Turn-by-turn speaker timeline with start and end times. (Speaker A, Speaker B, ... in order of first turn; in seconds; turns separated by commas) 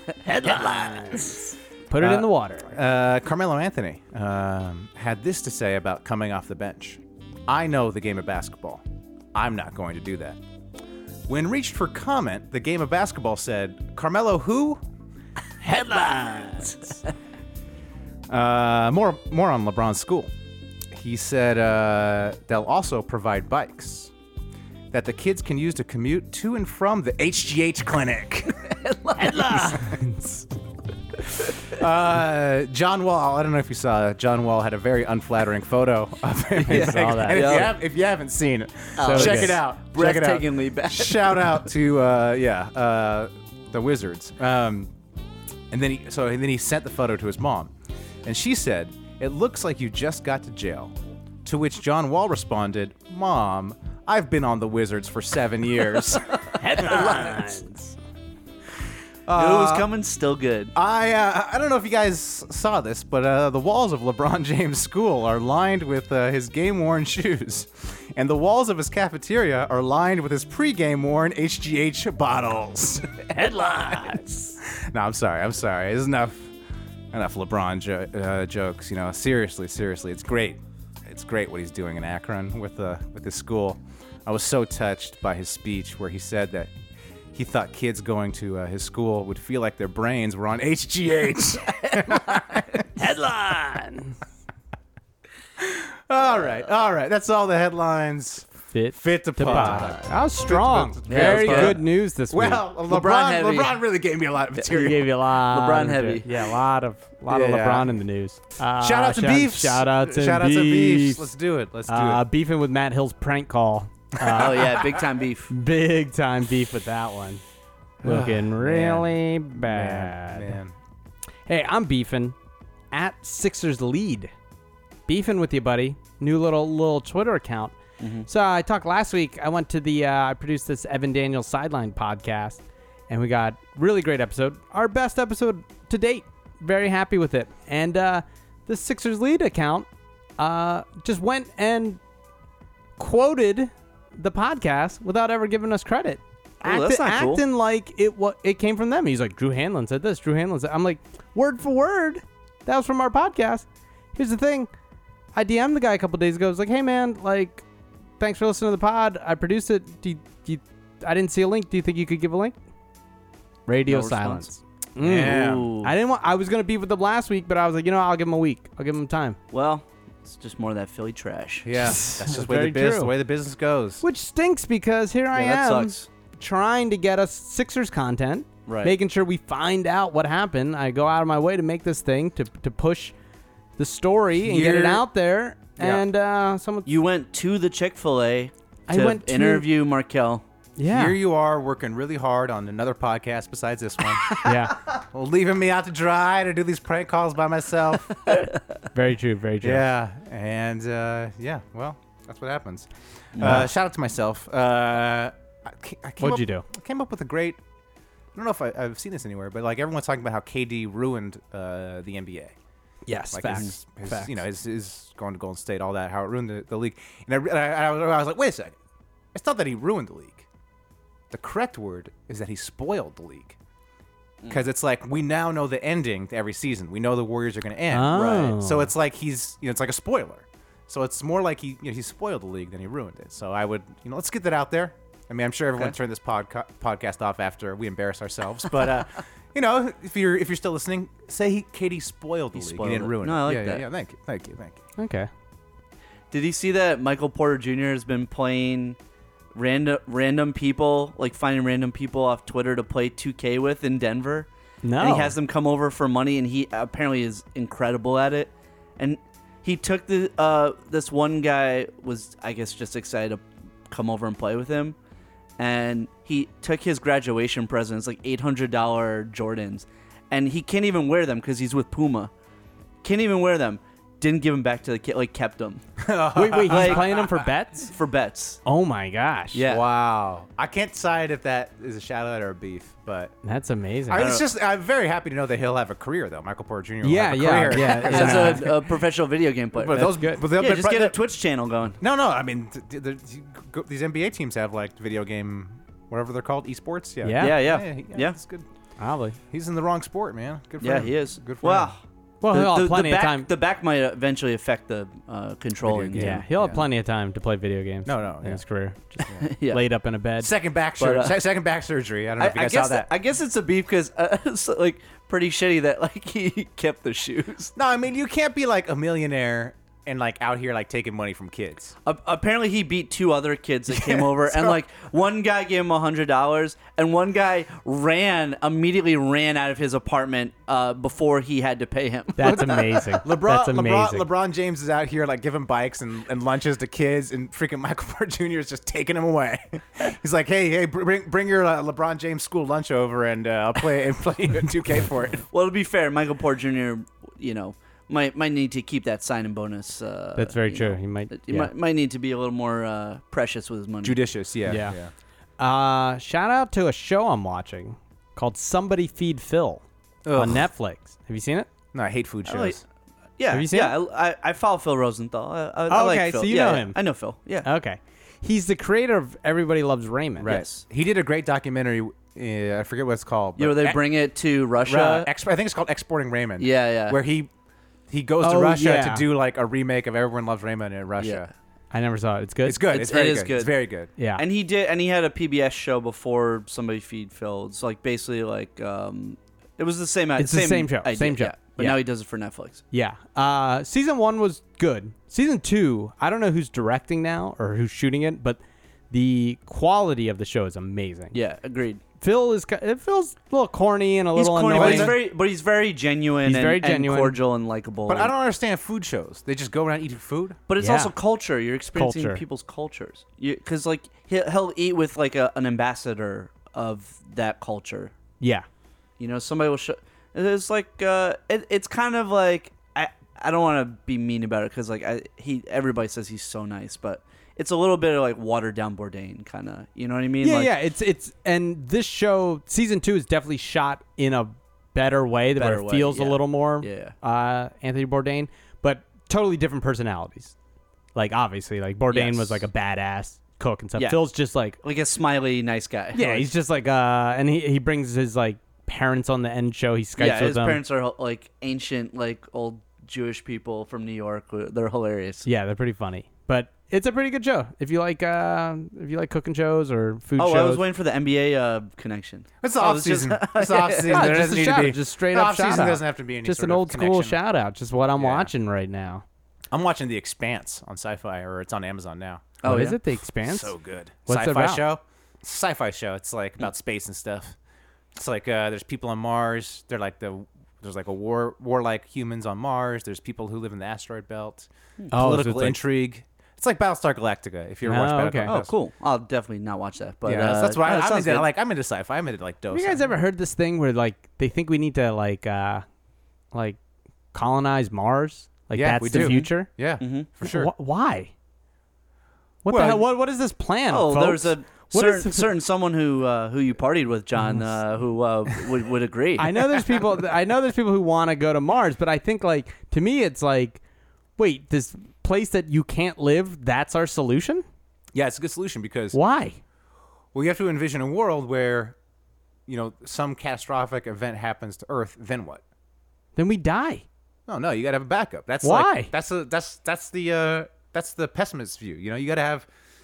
Speaker A: 0.2-2.7, Speaker B: 0.4-1.3, Speaker C: 2.0-8.8, Speaker C: 9.3-10.4, Speaker C: 11.3-14.8, Speaker A: 15.6-16.8, Speaker B: 15.7-16.8, Speaker C: 18.3-20.3, Speaker C: 20.9-24.1, Speaker C: 24.9-28.7, Speaker B: 28.7-29.5, Speaker A: 29.2-30.4, Speaker C: 29.6-29.9, Speaker C: 31.7-44.9, Speaker A: 36.6-37.6, Speaker B: 36.7-37.7, Speaker B: 39.0-41.7, Speaker A: 39.0-39.6, Speaker C: 45.7-47.7, Speaker C: 48.2-50.9, Speaker C: 51.4-57.3, Speaker A: 56.6-57.9, Speaker B: 56.8-57.4, Speaker C: 59.3-59.9, Speaker B: 59.3-60.7, Speaker C: 60.7-76.5, Speaker A: 73.3-74.6, Speaker C: 77.1-86.7, Speaker C: 87.3-92.8, Speaker A: 93.0-94.2, Speaker C: 95.6-105.1, Speaker A: 98.7-102.7, Speaker B: 99.5-100.0, Speaker B: 101.1-101.8, Speaker B: 102.9-103.8, Speaker A: 104.7-111.2, Speaker B: 105.3-106.3, Speaker C: 107.3-107.9, Speaker C: 108.8-112.2, Speaker A: 111.9-114.7, Speaker C: 114.2-114.8, Speaker B: 114.2-115.5, Speaker A: 115.5-117.4, Speaker A: 118.0-120.6, Speaker C: 118.0-120.7, Speaker A: 121.5-122.3, Speaker A: 122.9-124.3, Speaker A: 125.1-139.9, Speaker B: 128.0-128.3, Speaker A: 140.4-142.0, Speaker A: 143.0-154.7, Speaker B: 146.6-147.4, Speaker A: 155.3-157.6, Speaker A: 158.2-162.5, Speaker A: 163.7-169.4, Speaker B: 163.9-164.5, Speaker C: 165.0-165.7, Speaker B: 165.1-165.9, Speaker B: 169.5-171.8, Speaker C: 171.6-174.0, Speaker A: 172.0-173.1, Speaker A: 174.0-183.1, Speaker B: 175.3-176.1, Speaker B: 178.7-178.9, Speaker A: 183.8-186.9, Speaker C: 184.4-185.1, Speaker C: 185.8-186.0, Speaker B: 186.8-190.4, Speaker A: 188.9-189.7, Speaker A: 190.8-191.2, Speaker C: 190.9-198.3, Speaker A: 194.4-194.8, Speaker A: 198.9-199.8, Speaker C: 199.6-207.6, Speaker B: 203.3-203.6, Speaker A: 206.2-206.7, Speaker C: 208.3-212.5, Speaker A: 213.1-214.4, Speaker C: 213.3-218.8, Speaker C: 219.3-220.5, Speaker C: 221.3-223.6, Speaker C: 224.5-244.8, Speaker A: 227.9-228.9, Speaker B: 228.1-228.5, Speaker B: 242.5-243.8, Speaker A: 245.0-245.3, Speaker B: 246.3-249.0, Speaker B: 249.5-254.5, Speaker A: 254.8-255.3, Speaker B: 255.0-264.9, Speaker B: 265.6-272.3, Speaker B: 273.0-275.8, Speaker C: 276.0-277.4, Speaker A: 276.3-277.9, Speaker B: 276.6-277.3, Speaker B: 277.8-278.6, Speaker A: 278.6-279.6, Speaker B: 279.5-279.8, Speaker C: 279.6-283.3, Speaker A: 283.4-284.3, Speaker C: 284.1-288.8, Speaker B: 284.1-284.4, Speaker A: 287.0-288.7, Speaker B: 287.8-292.0, Speaker C: 289.7-291.2, Speaker A: 289.9-290.4, Speaker C: 292.0-298.6, Speaker A: 297.2-297.6, Speaker B: 297.4-298.4, Speaker A: 299.0-299.4, Speaker C: 299.5-301.9, Speaker B: 300.8-306.4, Speaker A: 302.4-303.5, Speaker C: 305.8-306.8, Speaker A: 306.1-310.5, Speaker C: 308.1-308.6, Speaker B: 309.3-309.8, Speaker C: 310.4-313.1, Speaker B: 311.0-311.4, Speaker B: 312.4-317.7, Speaker C: 317.8-321.9, Speaker B: 322.0-333.0, Speaker C: 323.9-324.8, Speaker A: 332.4-334.3, Speaker C: 332.4-345.4, Speaker B: 345.5-354.2, Speaker A: 350.4-351.7, Speaker C: 354.0-355.1, Speaker A: 354.7-354.9, Speaker A: 355.6-359.8, Speaker C: 360.2-360.7, Speaker A: 360.3-361.7, Speaker C: 361.9-362.8, Speaker B: 362.4-362.8, Speaker B: 363.4-367.7, Speaker A: 363.5-363.9, Speaker A: 365.9-367.0, Speaker A: 367.6-370.5, Speaker B: 370.4-370.8, Speaker C: 370.4-374.0, Speaker B: 373.6-375.3, Speaker C: 374.8-377.5, Speaker B: 376.6-377.2, Speaker C: 378.1-381.5, Speaker A: 378.4-379.3, Speaker B: 381.2-381.5, Speaker A: 381.9-382.9, Speaker C: 382.6-384.1, Speaker B: 382.9-383.8, Speaker A: 384.2-384.4, Speaker B: 384.4-392.8, Speaker A: 390.4-392.0, Speaker A: 392.9-398.6, Speaker A: 399.1-401.3, Speaker B: 401.3-402.0, Speaker A: 402.2-405.1, Speaker B: 404.4-408.3, Speaker C: 404.7-405.2, Speaker A: 406.4-407.4, Speaker C: 408.1-410.6, Speaker B: 410.7-418.1, Speaker A: 410.8-411.1, Speaker A: 411.9-412.4, Speaker A: 418.4-418.6, Speaker B: 419.2-430.7, Speaker A: 430.4-440.5, Speaker B: 435.6-437.1, Speaker A: 441.1-444.8, Speaker B: 442.1-442.6, Speaker B: 444.8-446.5, Speaker A: 446.1-450.8, Speaker B: 450.2-455.4, Speaker A: 455.4-460.8, Speaker B: 460.4-464.2, Speaker C: 462.6-467.4, Speaker A: 464.1-469.2, Speaker C: 468.2-468.5, Speaker C: 469.7-472.6, Speaker B: 472.6-473.0, Speaker A: 472.6-473.7, Speaker C: 473.4-477.6, Speaker A: 474.2-474.9, Speaker C: 478.1-488.7, Speaker A: 485.1-485.8, Speaker A: 487.8-488.5, Speaker B: 488.4-491.5, Speaker C: 490.2-493.1, Speaker A: 492.7-495.8, Speaker A: 496.5-496.8, Speaker A: 497.3-499.7, Speaker C: 498.7-500.7, Speaker B: 500.0-500.3, Speaker A: 500.4-501.3, Speaker A: 502.6-505.5, Speaker C: 502.7-503.0, Speaker B: 503.9-509.8, Speaker A: 507.4-507.7, Speaker A: 509.4-513.8, Speaker A: 514.4-517.6, Speaker C: 518.1-519.2, Speaker A: 519.1-519.6, Speaker C: 520.3-522.0, Speaker C: 522.7-525.6, Speaker A: 526.4-527.0, Speaker C: 527.5-532.7, Speaker A: 528.6-529.1